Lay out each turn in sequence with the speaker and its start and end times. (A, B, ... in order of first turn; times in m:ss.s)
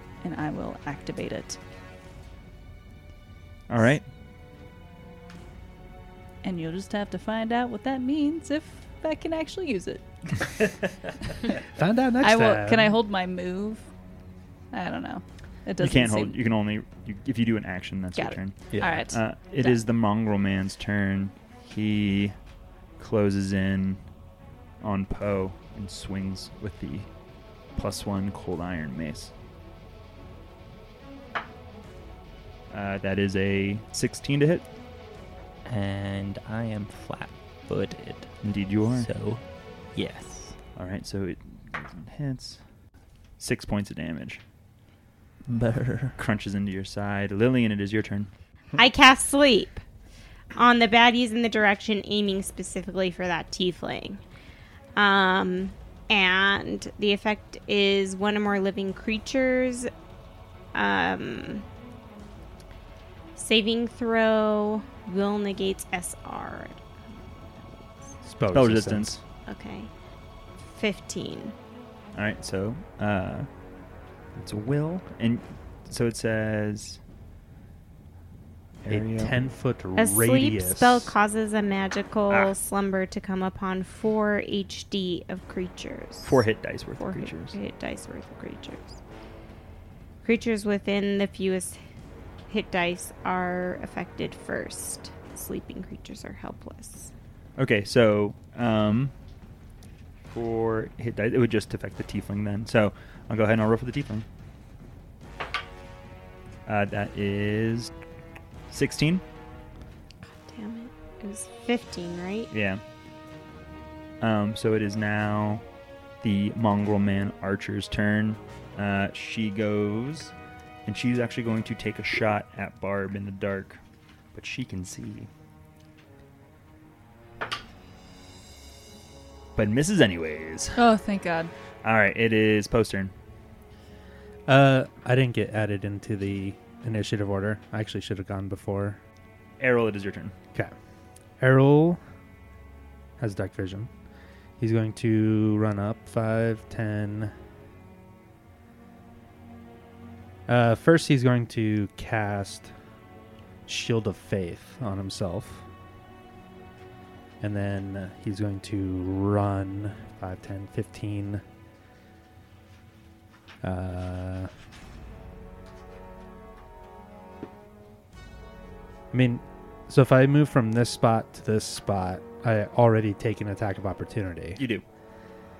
0:00.2-0:01.6 A
0:03.7-0:04.0 B
0:06.4-0:11.5 A
0:11.7-0:13.0 C
0:12.2-0:13.8 A
0:14.7-0:16.4 A
0:15.8-0:22.4 B
0:18.2-0:19.8 A
0:18.7-0:19.0 C
0:23.0-0:24.0 B
0:24.8-0:27.1 B
0:27.7-0:29.3 B
0:32.7-0:34.6 B
0:35.6-0:38.4 D
0:38.4-0:39.1 B
0:38.9-0:40.6 D
0:40.8-0:42.6 B
0:43.4-0:44.4 B
0:45.5-0:46.2 D
0:46.2-0:48.3 B
0:48.8-0:49.8 E
0:50.5-0:54.2 E
0:55.0-0:59.9 E
1:00.7-1:01.6 E
1:03.4-1:08.2 E
1:08.2-1:09.2 C
1:08.5-1:09.2 B
1:09.5-1:09.9 E
1:10.6-1:11.5 E
1:12.1-1:13.5 B
1:14.3-1:17.0 B
1:18.9-1:21.1 C
1:18.9-1:19.3 B
1:20.0-1:26.4 E
1:26.2-1:27.6 B
1:27.0-1:29.0 E
1:30.2-1:31.8 E
1:32.5-1:37.1 E
1:37.6-1:39.1 B
1:40.3-1:44.2 B
1:46.6-1:47.9 B
1:48.7-1:49.2 B
1:50.3-1:52.5 E
1:52.5-1:52.8 B
1:54.2-1:55.6 B
1:56.2-2:00.3 B
2:00.8-2:03.8 B
2:04.3-2:05.3 B
2:09.6-2:10.8 B
2:10.8-2:11.5 A
2:11.8-2:13.1 B
2:14.5-2:19.0 C
2:19.6-2:20.3 B
2:21.4-2:22.0 C
2:23.2-2:23.9 C
2:24.6-2:27.3 C
2:30.5-2:32.7 C
2:33.6-2:35.6 C
2:37.4-2:41.4 C
2:43.6-2:44.5 C
2:49.1-2:54.6 C
2:54.6-2:54.8 B